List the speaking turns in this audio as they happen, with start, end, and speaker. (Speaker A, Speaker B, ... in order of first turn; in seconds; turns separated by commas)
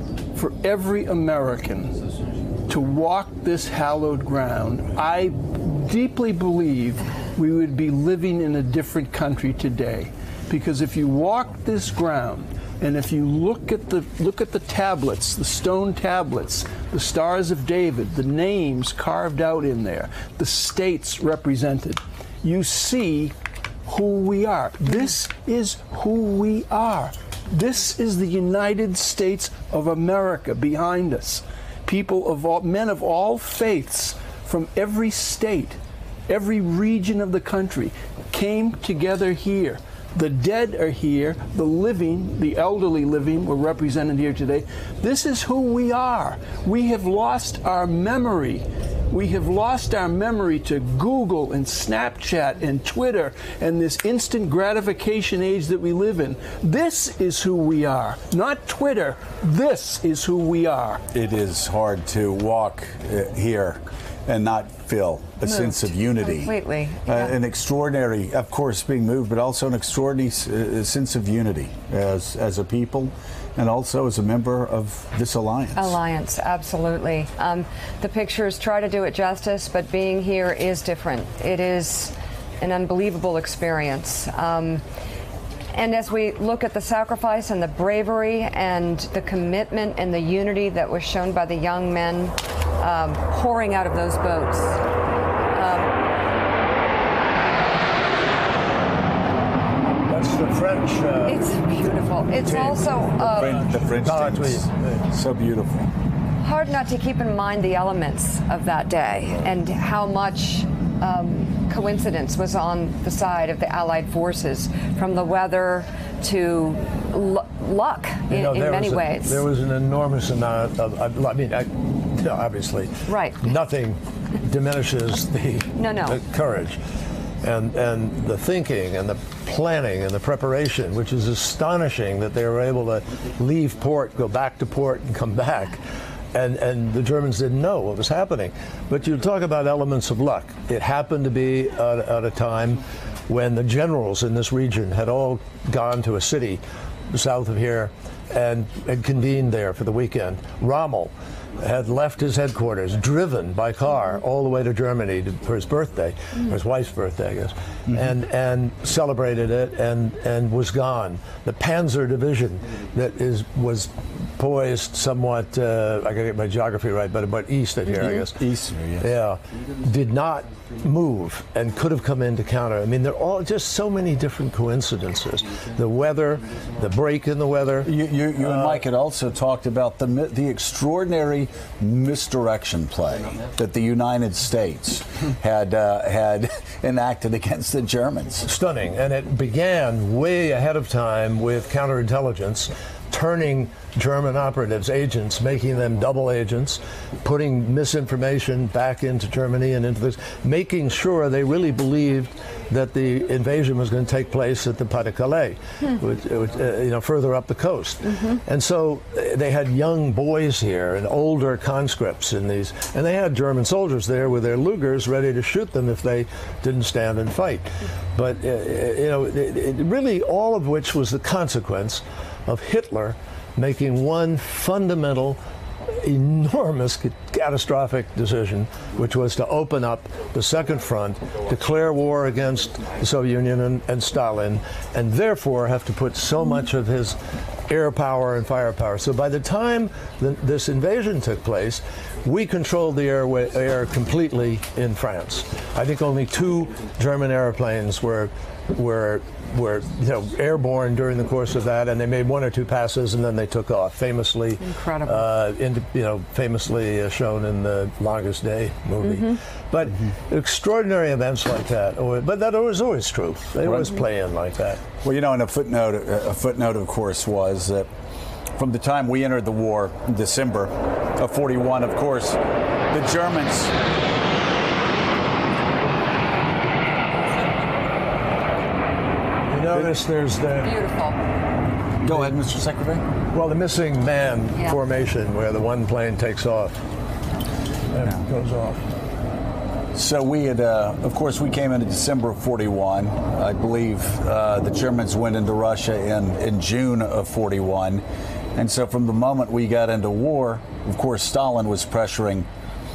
Speaker A: 0.3-1.9, Speaker A: 2.7-23.3, Speaker A: 23.9-61.0, Speaker B: 61.1-76.0, Speaker C: 65.4-67.3, Speaker C: 75.7-84.8, Speaker C: 85.7-94.8, Speaker C: 95.5-95.9, Speaker D: 100.0-101.5, Speaker C: 101.2-103.6, Speaker D: 102.4-105.0, Speaker B: 103.2-105.9, Speaker C: 106.4-119.4, Speaker D: 118.3-126.8, Speaker C: 123.1-123.5, Speaker C: 125.8-126.2, Speaker D: 127.4-168.4, Speaker B: 168.0-169.1, Speaker D: 169.0-177.9, Speaker B: 177.8-188.5, Speaker D: 178.4-178.8, Speaker D: 188.4-264.8, Speaker C: 254.6-255.2, Speaker B: 265.0-267.9, Speaker B: 268.6-272.4, Speaker B: 272.9-273.7, Speaker D: 279.5-280.7, Speaker C: 280.6-281.2, Speaker B: 282.0-283.0, Speaker D: 283.3-286.7, Speaker D: 287.9-288.8, Speaker B: 289.9-298.0, Speaker B: 298.5-302.5